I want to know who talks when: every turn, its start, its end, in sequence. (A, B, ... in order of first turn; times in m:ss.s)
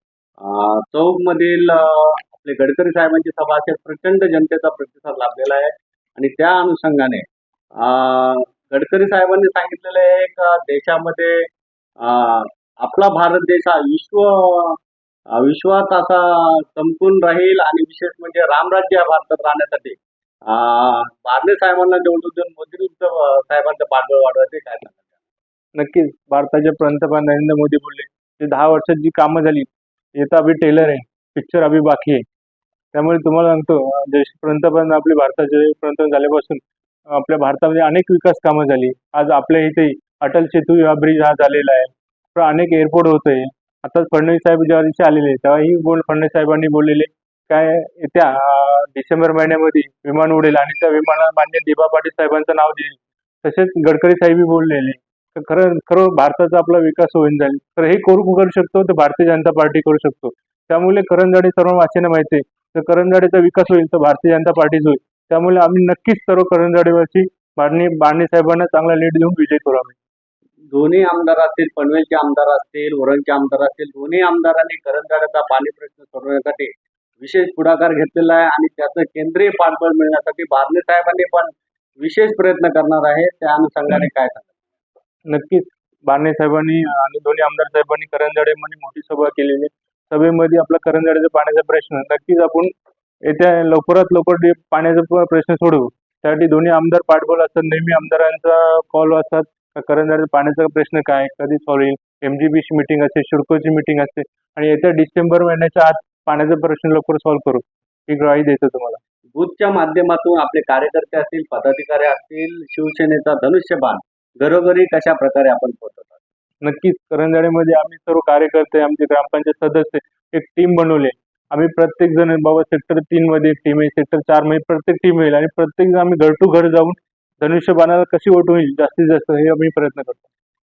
0:00.4-0:07.2 A
0:07.8-0:11.5 A
0:12.0-0:14.8 A
0:15.3-0:25.2 A
0:25.7-0:32.2 B
0:32.9-1:10.0 B
1:10.7-1:24.6 A
1:25.3-1:32.7 B
1:33.3-1:49.0 B
1:49.3-1:56.2 A
1:56.6-2:10.3 B